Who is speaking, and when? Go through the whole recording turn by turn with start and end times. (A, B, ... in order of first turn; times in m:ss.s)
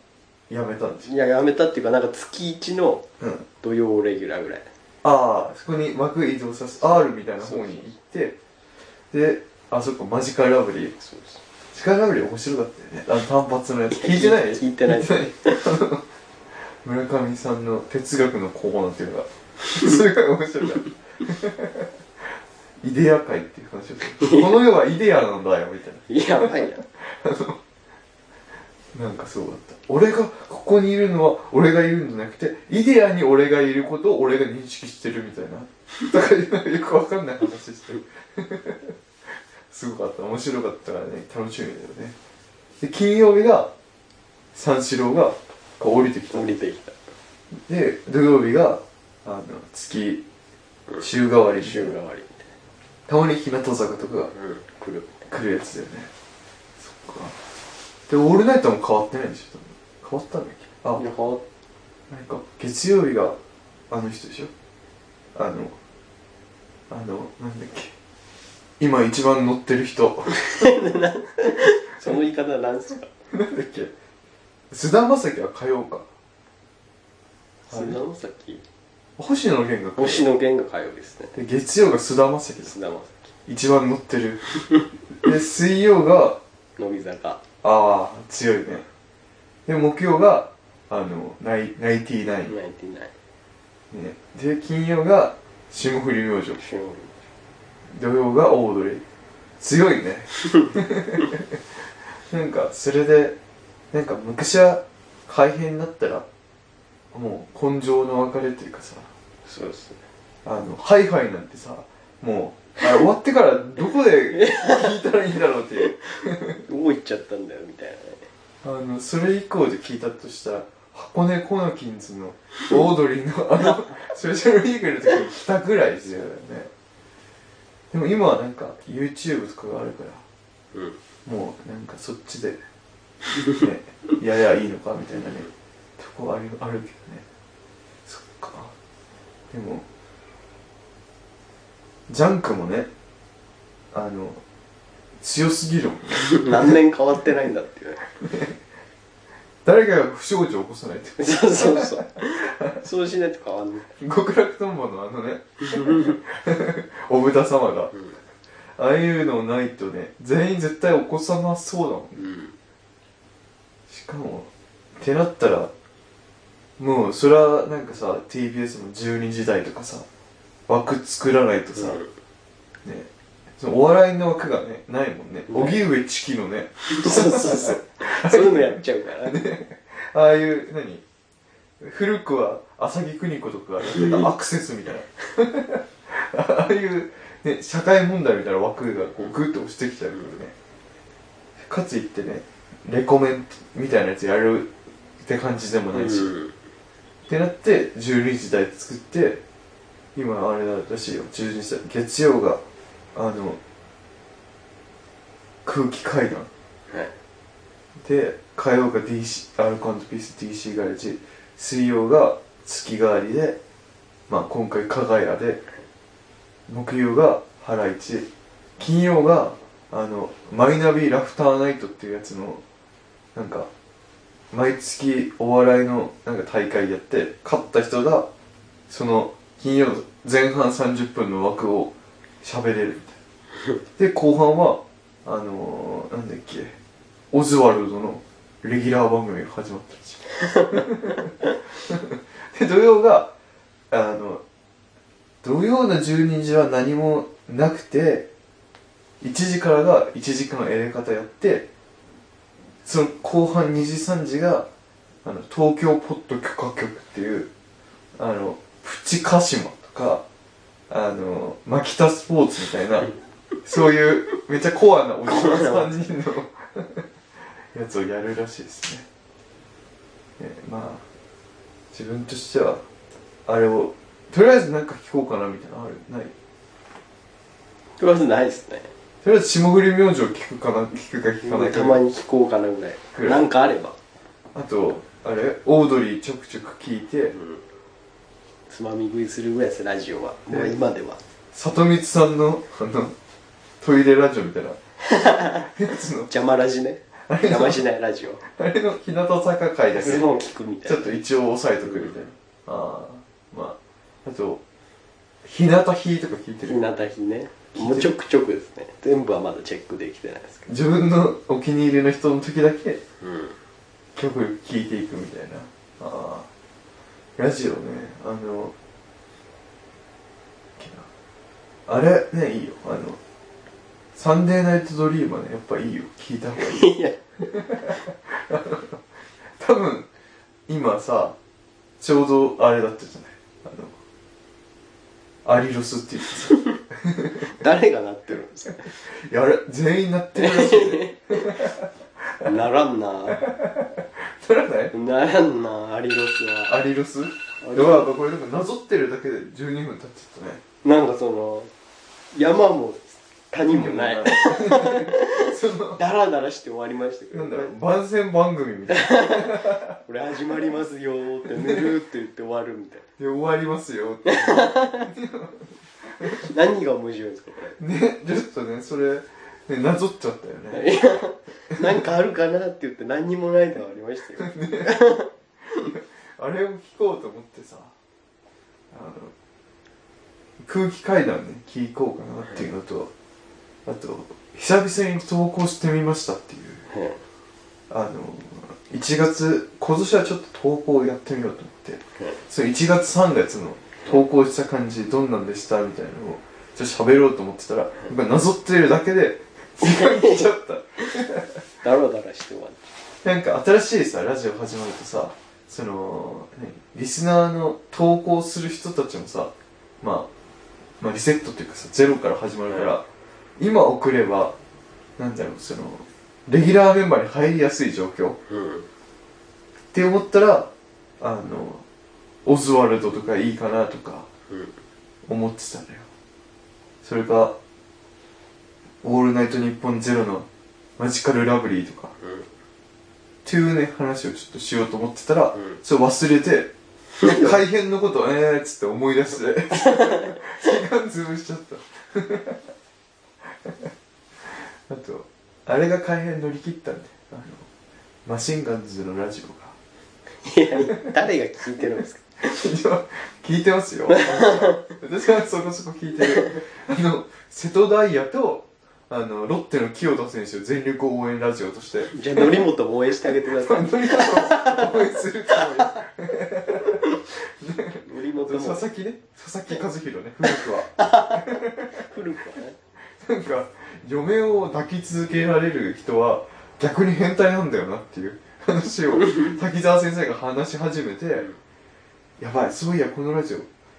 0:00.5-0:01.1 A
0:01.0-0:03.0 B
0:03.2-0:03.4 A
0:03.6-0:04.7 B
0:05.0-0:08.4 A
0:06.8-0:07.9 B
0:09.1-0:10.9 A
0:11.0-0:11.4 B
0:11.7-0:16.0 A
0:13.9-0:15.6 B
0:16.6-0:21.9 A
0:22.8-0:27.6 A
0:24.2-0:24.5 B
0:26.1-0:26.8 B
0:28.9-0:39.0 A
0:39.7-0:42.1 A
0:42.8-0:43.7 A
0:44.5-0:46.5 A
0:46.3-0:47.0 B
0:47.5-0:50.2 A
0:50.9-0:52.5 B
0:51.0-0:52.0 A
0:53.1-0:54.3 A
0:54.3-0:55.2 B
0:55.3-0:56.1 A
0:56.8-0:57.4 A
0:58.1-1:01.0 A
1:00.9-1:01.4 B
1:02.1-1:03.4 A
1:03.9-1:04.5 A
1:05.3-1:05.7 A
1:06.9-1:07.9 A
1:08.8-1:10.8 A
1:10.3-1:13.1 B
1:13.3-1:13.9 A
1:14.7-1:16.0 A
1:17.7-1:18.6 B
1:17.7-1:18.0 A
1:19.2-1:20.3 A
1:20.0-1:21.3 B
1:21.3-1:22.7 A
1:22.6-1:23.3 B
1:23.4-1:24.4 A
1:25.2-1:26.4 A
1:26.8-1:27.4 B
1:27.6-1:28.8 A
1:29.6-1:32.5 A
1:32.4-1:33.1 B
1:33.9-1:36.6 A
1:36.6-1:37.1 B
1:37.9-1:39.0 A
1:39.6-1:41.6 A
1:42.2-1:43.4 A
1:43.9-1:46.3 A
1:47.1-1:49.1 A
1:49.4-1:50.0 B
1:50.4-1:56.6 A
1:54.4-1:54.8 B
1:56.6-1:58.3 B
1:58.6-2:06.7 A
2:07.9-2:10.2 A
2:11.2-2:12.6 A
2:13.6-2:17.2 A
2:18.0-2:18.7 A
2:19.5-2:19.8 A
2:22.1-2:22.9 A
2:23.9-2:24.4 A
2:25.2-2:26.8 A
2:26.4-2:28.1 B
2:28.2-2:28.5 A
2:29.6-2:32.8 A
2:31.2-2:33.9 B
2:34.0-2:37.9 A
2:38.8-2:42.2 A
2:42.2-2:42.6 B
2:43.9-2:45.7 A
2:46.8-2:50.0 A
2:50.7-2:52.0 A
2:51.8-2:52.1 B
2:52.8-3:01.0 A
2:55.5-2:55.8 B
2:56.9-2:59.4 B
3:01.8-3:10.5 A
3:03.9-3:04.3 B
3:11.6-3:16.3 A
3:15.9-3:16.5 B
3:17.3-3:19.4 A
3:20.1-3:22.6 A
3:23.1-3:23.6 A
3:25.6-3:26.5 A
3:28.0-3:33.6 A
3:34.3-3:35.6 A
3:36.7-3:42.6 A
3:43.3-3:43.7 A
3:44.5-3:48.3 A
3:48.9-3:53.2 A
3:54.0-3:56.8 A
3:57.3-4:03.3 A
4:03.9-4:04.4 A
4:05.4-4:08.3 A
4:09.2-4:11.7 A
4:12.8-4:14.7 A
4:15.2-4:17.5 A
4:18.2-4:20.2 A
4:20.9-4:23.1 A
4:23.6-4:27.0 A
4:25.2-4:26.1 B
4:27.7-4:29.0 A
4:30.4-4:31.0 A
4:31.9-4:32.8 A
4:33.5-4:36.3 A
4:38.0-4:38.9 B
4:39.2-4:42.0 A
4:41.4-4:44.0 B
4:43.1-4:43.5 A
4:44.5-4:47.3 A
4:47.3-4:47.6 B
4:48.7-4:51.2 B
4:50.5-4:50.8 A
4:51.5-4:53.1 A
4:53.8-4:54.8 A
4:55.1-4:55.7 B
4:55.5-4:56.3 A
4:56.3-4:58.4 B
4:57.3-4:57.8 A
4:58.5-5:04.6 A
4:59.9-5:01.1 B
5:01.8-5:02.2 B
5:05.4-5:06.9 A
5:06.7-5:10.7 B
5:07.7-5:08.1 A
5:10.6-5:13.0 A
5:13.2-5:13.6 B
5:14.1-5:16.4 A
5:17.4-5:18.7 A
5:20.8-5:21.1 A
5:21.9-5:23.2 A
5:24.1-5:26.9 A
5:26.6-5:27.2 B
5:27.5-5:28.9 A
5:29.6-5:30.1 A
5:30.7-5:31.4 A
5:32.0-5:33.9 A
5:35.4-5:37.5 A
5:37.4-5:39.0 B
5:39.0-5:41.7 A
5:40.4-5:41.7 B
5:42.4-5:43.5 B
5:43.4-5:44.9 A
5:44.9-5:46.7 B
5:46.7-5:50.6 A
5:47.6-5:48.1 B
5:50.8-5:51.7 B
5:52.3-5:57.7 B
5:53.6-5:56.0 A
5:57.3-6:00.0 A
5:58.9-6:03.0 B
6:01.6-6:01.9 A
6:03.2-6:06.4 A
6:04.3-6:05.1 B
6:06.2-6:07.8 B
6:07.8-6:11.0 A
6:10.7-6:15.3 B
6:14.4-6:14.9 A
6:15.8-6:17.9 A
6:18.9-6:19.3 A
6:20.6-6:23.1 A
6:23.8-6:26.8 A
6:26.9-6:27.2 B
6:27.9-6:41.6 A
6:39.8-6:40.5 B
6:41.8-6:42.9 B
6:43.2-6:50.3 A
6:51.0-6:53.0 A
6:52.7-6:52.9 B
6:53.6-6:54.5 A
6:55.2-6:58.4 A
6:58.5-6:58.9 B
6:59.9-7:00.7 A
7:01.2-7:01.8 A
7:02.4-7:04.3 A
7:04.5-7:04.8 B
7:05.2-7:06.0 A
7:07.0-7:07.5 A
7:09.0-7:10.5 A
7:11.0-7:12.1 A
7:12.2-7:12.5 B
7:13.4-7:22.6 A
7:15.5-7:15.8 B
7:23.4-7:23.9 A
7:24.4-7:27.7 A
7:28.2-7:29.8 A
7:30.4-7:32.3 B
7:32.4-7:42.6 A
7:34.1-7:34.8 B
7:42.1-7:46.0 B
7:43.2-7:52.0 A
7:48.0-7:48.8 B
7:50.5-7:52.8 B
7:53.0-8:01.5 A
8:02.4-8:03.7 A